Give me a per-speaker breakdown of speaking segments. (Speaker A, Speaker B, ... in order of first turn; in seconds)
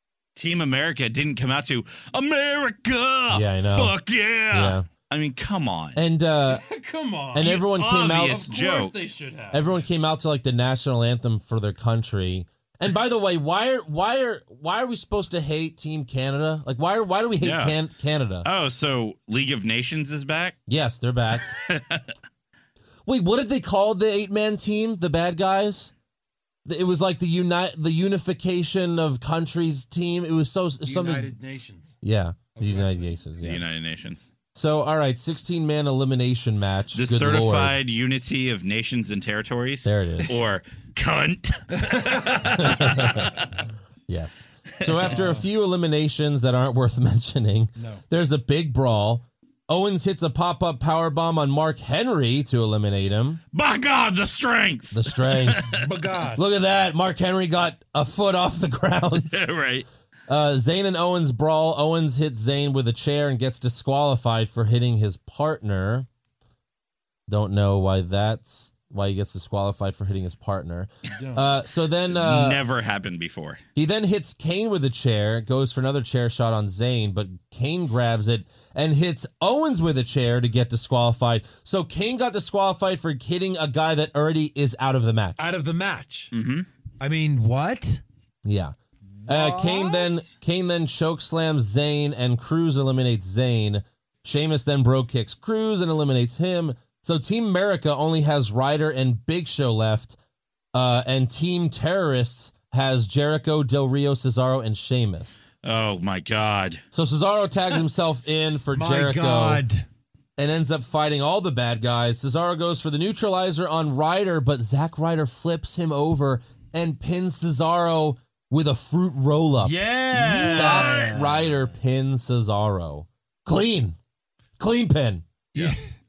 Speaker A: 0.4-6.0, 7.4-8.9, 17.4-17.8, 18.4-20.6, 21.5-22.1, 33.4-34.3, 36.9-43.4, 44.8-45.1, 53.5-55.8, 59.3-59.9, 72.1-73.6, 86.3-86.7, 105.6-106.8, 120.1-121.2
Speaker B: 3.3-4.0, 4.5-4.9, 5.9-6.6, 7.3-8.5, 9.5-18.5, 20.7-21.5, 23.1-25.9, 26.6-31.3, 32.0-33.6, 34.5-37.8, 39.8-40.4, 42.4-43.4, 44.1-53.4, 54.9-55.7, 56.3-59.4, 60.3-66.1, 67.3-72.6, 73.8-85.5, 88.4-88.7, 89.3-100.2, 100.7-105.4, 106.9-109.6, 110.4-119.8, 120.3-124.0, 124.6-125.2
Speaker C: 6.5-9.7, 30.8-31.9, 32.5-33.1, 41.7-42.4, 45.1-45.5, 47.8-48.0, 55.7-56.4, 85.4-86.3, 87.0-88.0, 89.2-90.3, 108.7-109.9, 119.6-121.4